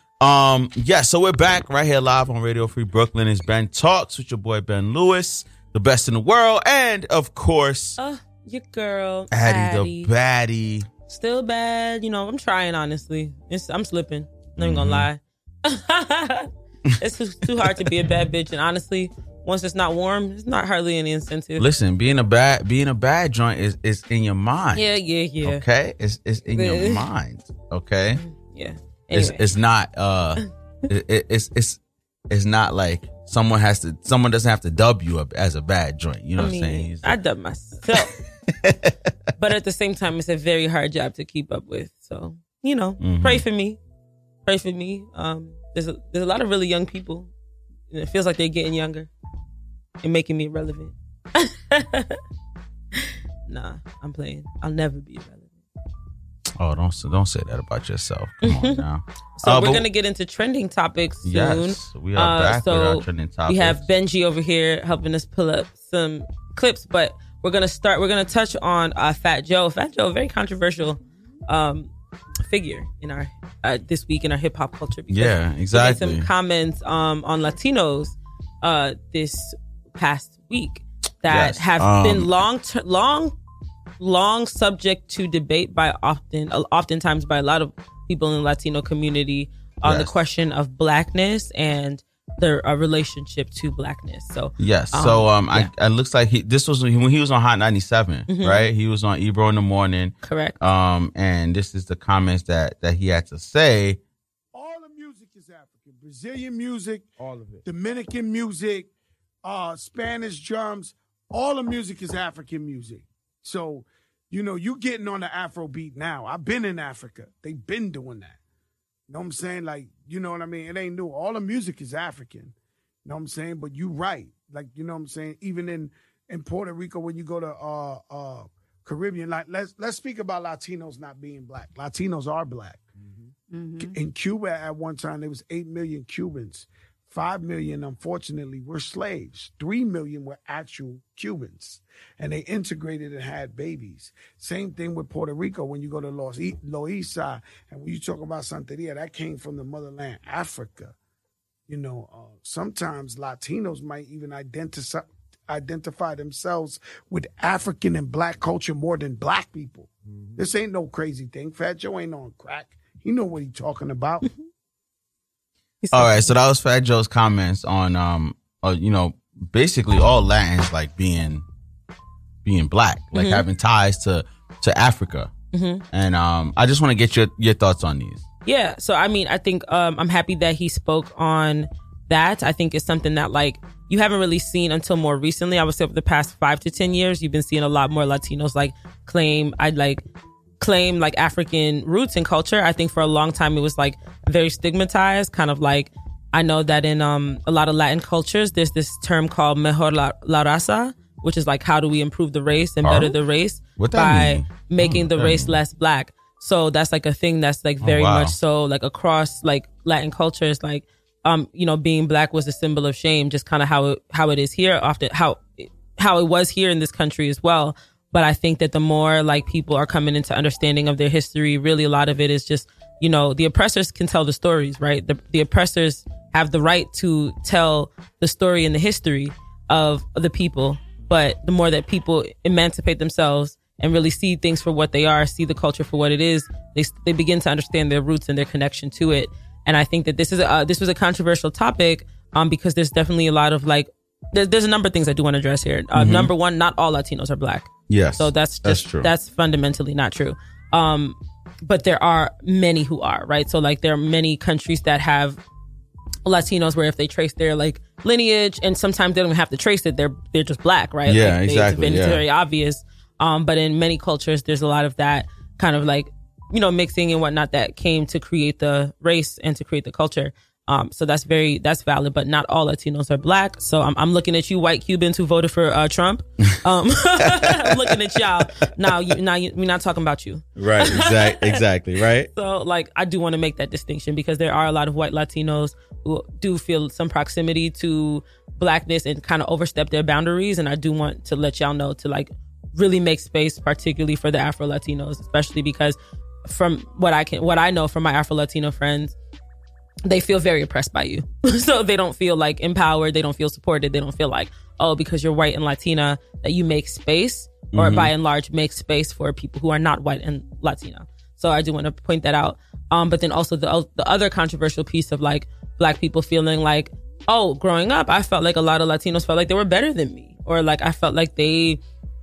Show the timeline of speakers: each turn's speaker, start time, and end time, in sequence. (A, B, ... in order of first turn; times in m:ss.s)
0:00.2-0:08.0 A
0:08.0-0:10.1 B
0:09.3-0:10.9 A
0:11.1-0:21.6 B
0:14.6-0:15.1 A
0:21.6-0:24.8 A
0:24.7-0:25.6 B
0:25.4-0:28.2 A
0:26.5-0:27.0 B
0:28.2-0:29.4 B
0:29.1-0:31.8 A
0:32.3-0:37.2 A
0:36.4-0:38.1 B
0:38.6-0:38.9 A
0:39.4-0:43.8 B
0:43.0-0:43.4 A
0:44.4-0:47.3 B
0:47.9-0:49.1 B
0:50.0-0:52.2 B
0:53.5-0:55.5 B
0:56.6-0:59.8 A
0:58.4-0:58.8 B
0:59.4-1:11.9 B
1:01.2-1:03.8 A
1:12.5-1:23.3 B
1:15.1-1:16.3 A
1:21.3-1:22.3 A
1:24.0-1:35.7 B
1:29.8-1:30.1 A
1:34.6-1:44.0 A
1:38.3-1:38.7 B
1:40.2-1:40.5 B
1:44.5-1:48.9 C
1:49.4-1:58.4 C
1:59.1-2:02.5 C
2:03.0-2:12.8 C
2:13.8-2:30.9 C
2:31.7-2:44.2 C
2:45.8-2:46.3 B
2:45.9-2:51.4 A
2:52.4-2:55.3 A
2:53.1-2:53.4 B
2:55.5-2:55.8 B
2:55.9-2:58.2 A
2:58.4-3:10.0 B
3:10.6-4:15.4 B
3:22.8-3:23.2 A
3:23.8-3:25.6 A
3:27.8-3:28.4 A
4:05.9-4:06.3 A
4:07.9-4:09.1 A
4:16.2-4:41.6 B
4:21.0-4:22.2 A
4:37.3-4:37.9 A
4:40.6-4:42.3 A
4:42.3-4:59.2 B
5:00.0-5:21.8 B
5:07.7-5:08.1 A